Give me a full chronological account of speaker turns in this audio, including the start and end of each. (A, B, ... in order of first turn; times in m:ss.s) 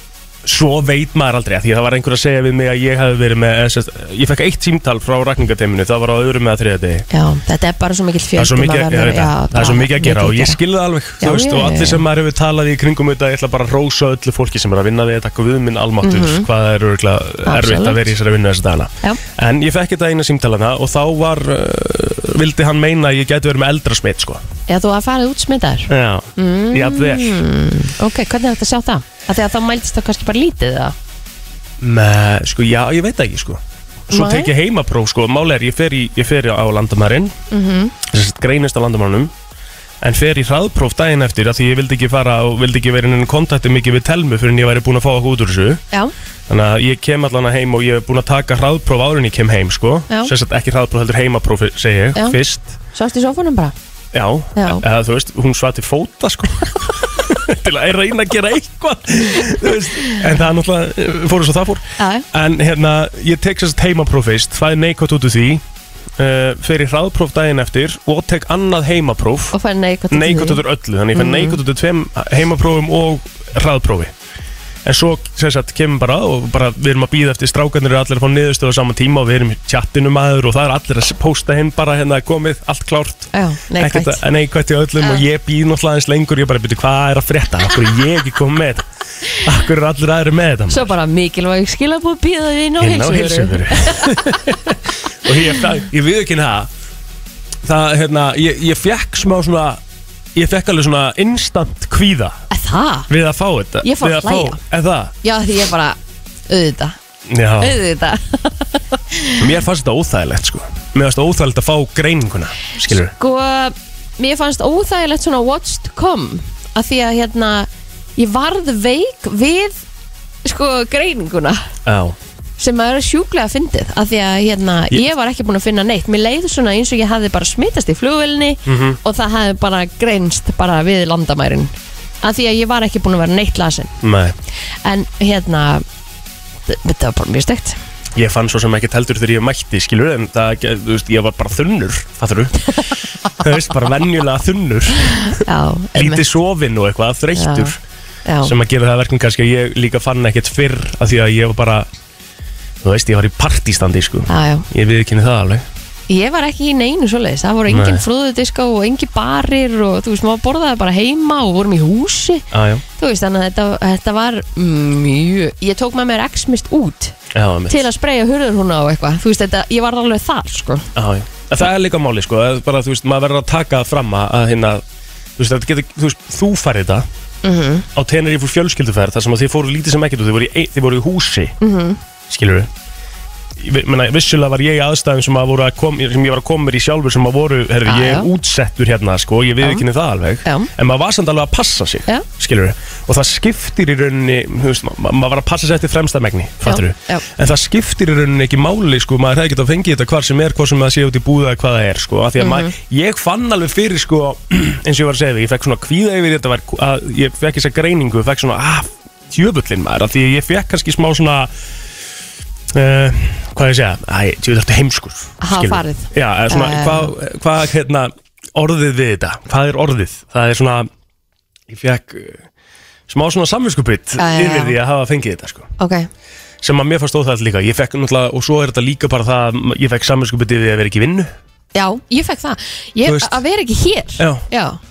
0:00.4-0:07.1 A
0:07.1-0:10.6 B
0:08.4-0:24.4 A
0:11.2-0:12.0 B
0:16.0-0:16.5 B
0:17.4-0:18.1 B
0:24.7-0:31.0 B
0:25.9-0:27.4 A
0:31.8-0:37.4 A
0:34.1-0:34.5 B
0:37.5-0:37.9 B
0:38.0-0:39.3 A
0:40.0-0:45.8 A
0:46.5-0:52.8 A
0:52.1-0:52.4 B
0:52.9-0:53.8 B
0:54.1-1:05.6 A
0:54.6-0:54.8 B
0:59.9-1:00.2 B
1:02.0-1:02.3 B
1:06.2-1:09.6 A
1:09.5-1:10.6 B
1:10.1-1:14.1 A
1:11.1-1:11.6 B
1:14.8-1:30.9 A
1:23.3-1:24.2 B
1:30.7-1:34.2 B
1:32.8-1:36.7 A
1:37.6-1:39.8 A
1:40.4-1:42.4 A
1:42.5-1:43.1 B
1:43.1-1:45.1 A
1:43.8-1:44.6 B
1:45.2-1:47.0 B
1:47.3-1:47.8 A
1:47.6-1:49.5 B
1:49.4-1:53.1 A
1:53.0-1:59.8 B
2:00.4-2:01.7 B
2:01.8-2:02.2 A
2:02.6-2:14.0 B
2:08.7-2:09.0 A
2:14.0-2:14.4 A
2:14.6-2:15.8 B
2:16.7-2:17.8 B
2:18.2-2:22.7 A
2:23.3-2:25.4 A
2:25.4-2:26.2 B
2:26.0-2:27.8 A
2:27.4-2:27.8 B
2:28.3-2:28.5 B
2:28.4-2:31.9 A
2:32.8-2:35.7 A
2:34.3-2:34.7 B
2:36.1-2:42.5 B
2:37.7-2:38.0 A
2:42.5-2:42.8 A
2:43.0-2:47.2 B
2:47.3-2:47.8 A
2:47.7-2:50.9 B
2:51.0-2:54.8 A
2:55.4-2:57.1 A
2:57.4-2:57.9 B
2:58.0-3:01.6 A
3:01.6-3:02.0 B
3:02.3-3:02.7 A
3:03.6-3:31.5 A
3:07.9-3:08.3 B
3:10.4-3:10.7 B
3:16.6-3:17.3 B
3:22.4-3:22.7 B
3:32.7-3:40.9 A
3:35.4-3:37.1 B
3:41.7-3:42.4 A
3:43.1-3:45.7 A
3:44.2-3:44.8 B
3:45.8-3:46.1 B
3:46.6-3:51.3 A
3:51.8-3:54.8 B
3:53.0-3:53.4 A
3:54.2-3:54.4 A